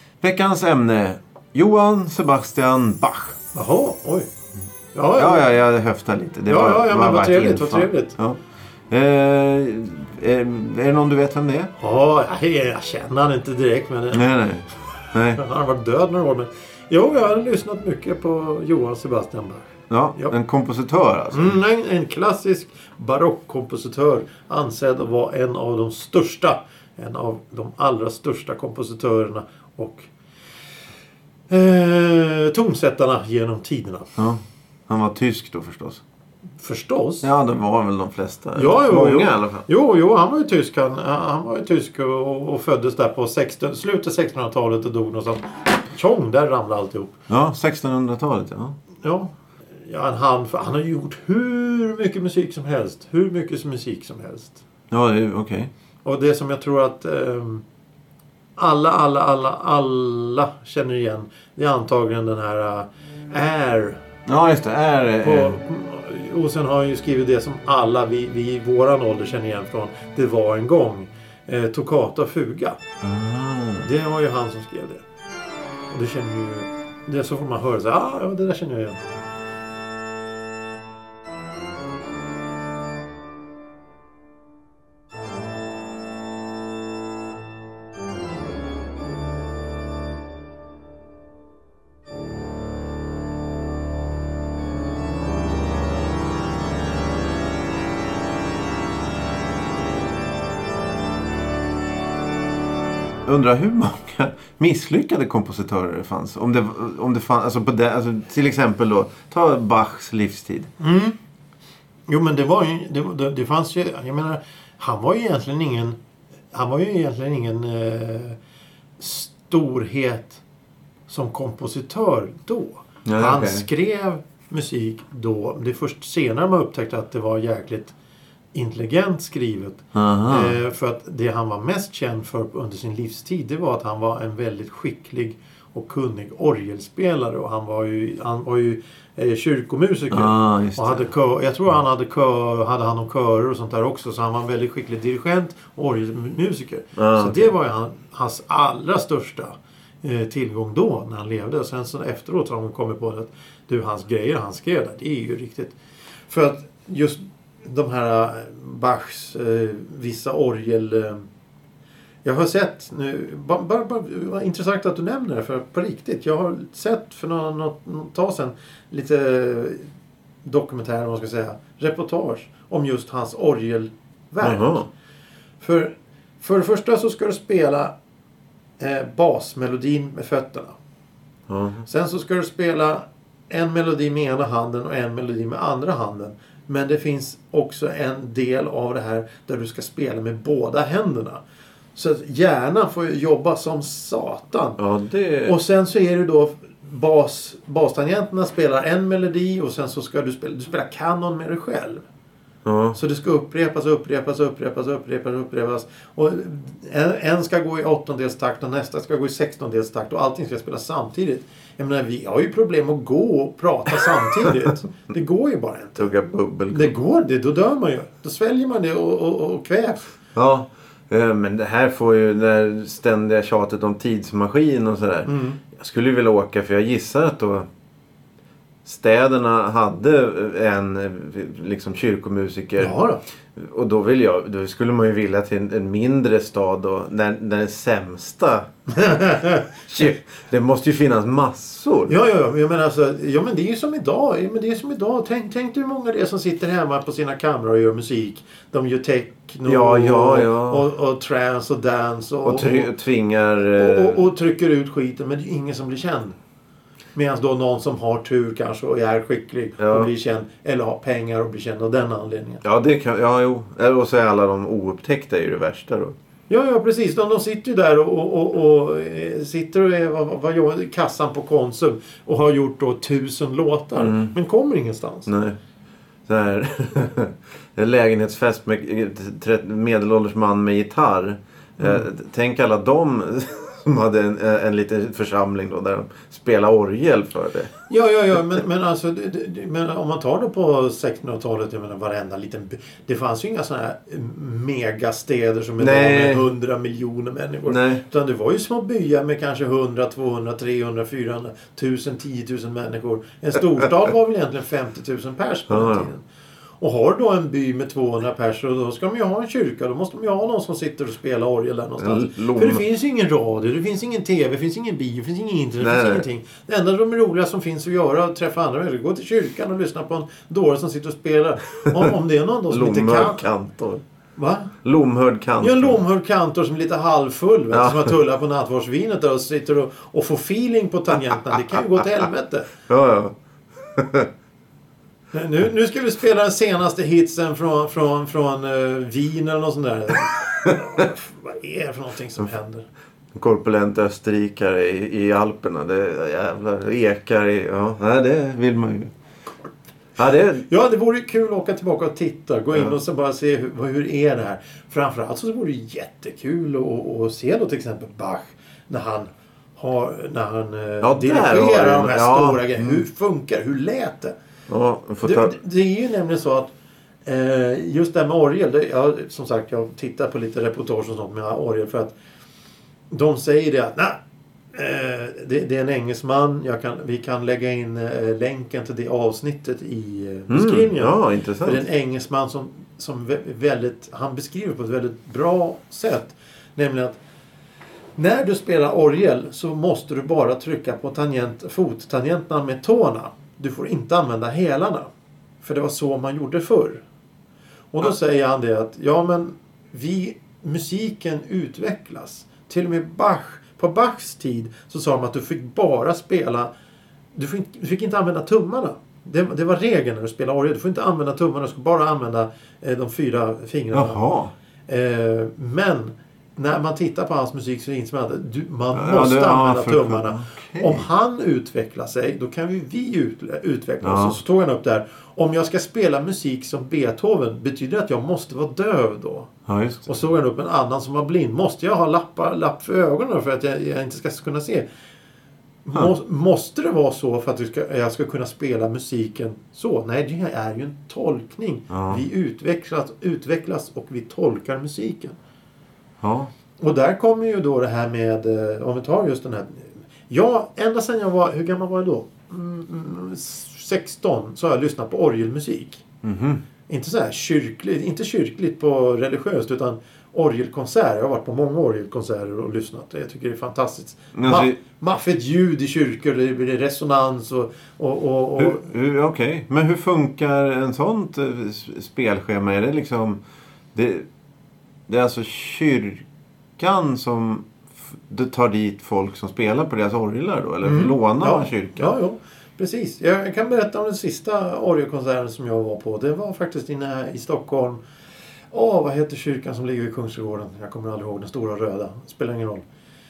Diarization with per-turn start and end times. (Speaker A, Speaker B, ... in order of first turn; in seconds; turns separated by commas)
Speaker A: 0.2-3.4, Speaker B: 3.5-4.3, Speaker B: 4.9-5.5, Speaker A: 5.2-11.7, Speaker B: 6.5-8.1, Speaker B: 11.8-14.3, Speaker A: 14.1-15.4, Speaker B: 15.3-20.3, Speaker A: 19.9-21.6, Speaker B: 21.3-30.1, Speaker B: 31.5-34.1, Speaker A: 34.2-36.0, Speaker B: 36.6-37.3, Speaker A: 37.2-39.6, Speaker B: 38.5-47.2, Speaker A: 47.3-48.8, Speaker B: 49.0-54.6, Speaker A: 54.9-55.7, Speaker B: 56.0-57.6, Speaker B: 58.6-64.0, Speaker A: 64.2-65.6, Speaker B: 65.2-72.8, Speaker A: 73.0-73.9, Speaker B: 73.8-75.0, Speaker B: 75.9-79.0, Speaker A: 103.2-110.7, Speaker B: 110.8-111.2, Speaker B: 112.1-116.0, Speaker B: 116.5-118.4, Speaker B: 119.0-120.4, Speaker B: 121.1-127.9, Speaker A: 123.0-123.7, Speaker B: 128.5-155.7, Speaker A: 129.9-130.5, Speaker A: 140.1-141.1, Speaker A: 146.9-147.5, Speaker B: 156.3-161.2, Speaker B: 162.2-169.9, Speaker B: 170.4-174.8, Speaker A: 174.4-174.9, Speaker B: 175.6-177.9, Speaker B: 178.8-180.7, Speaker A: 181.5-181.8, Speaker B: 181.9-191.4, Speaker B: 191.9-194.8, Speaker A: 194.8-195.5, Speaker B: 195.4-202.0, Speaker A: 202.6-203.0, Speaker B: 202.9-216.1, Speaker A: 216.0-216.9, Speaker B: 216.7-220.1, Speaker A: 220.3-227.7, Speaker B: 225.2-225.6, Speaker A: 228.8-232.9, Speaker B: 232.8-233.2, Speaker A: 233.5-238.7, Speaker B: 239.0-239.6, Speaker A: 239.7-242.1, Speaker B: 242.1-252.9, Speaker A: 249.7-250.8, Speaker A: 252.4-254.2, Speaker B: 253.8-256.4, Speaker B: 257.1-262.6, Speaker A: 259.8-260.1, Speaker A: 262.6-266.1, Speaker B: 266.5-275.3, Speaker A: 274.0-274.3, Speaker A: 275.2-275.6, Speaker A: 276.3-287.7, Speaker B: 287.9-306.2, Speaker A: 295.8-296.5, Speaker A: 297.7-298.0, Speaker A: 305.7-306.1, Speaker B: 306.8-323.4, Speaker A: 312.0-312.8, Speaker A: 315.8-316.2, Speaker A: 322.7-324.0, Speaker B: 324.4-324.7, Speaker A: 324.8-326.0, Speaker B: 325.6-332.7, Speaker A: 327.7-328.1, Speaker A: 332.9-334.3, Speaker B: 335.3-342.9, Speaker A: 343.3-349.1, Speaker A: 350.2-350.6, Speaker B: 350.7-364.3, Speaker A: 361.0-363.0, Speaker A: 364.7-365.5, Speaker B: 365.2-366.7, Speaker B: 367.2-372.1, Speaker B: 373.1-374.2, Speaker B: 374.7-387.2, Speaker A: 380.5-381.8, Speaker B: 388.2-395.1, Speaker B: 395.6-397.0, Speaker B: 397.9-406.7, Speaker B: 407.3-414.2, Speaker A: 413.9-414.5, Speaker B: 414.9-429.5, Speaker A: 418.9-421.1, Speaker A: 424.0-424.4, Speaker A: 429.7-430.1, Speaker B: 430.0-434.9, Speaker B: 435.8-445.4, Speaker A: 441.9-442.2, Speaker A: 446.2-446.5, Speaker B: 446.8-456.0, Speaker A: 456.2-456.6, Speaker B: 456.9-468.9, Speaker A: 464.3-464.8, Speaker A: 468.6-473.4, Speaker A: 473.9-474.3, Speaker A: 475.1-476.2, Speaker A: 476.8-482.1, Speaker B: 480.8-488.0, Speaker B: 488.7-492.8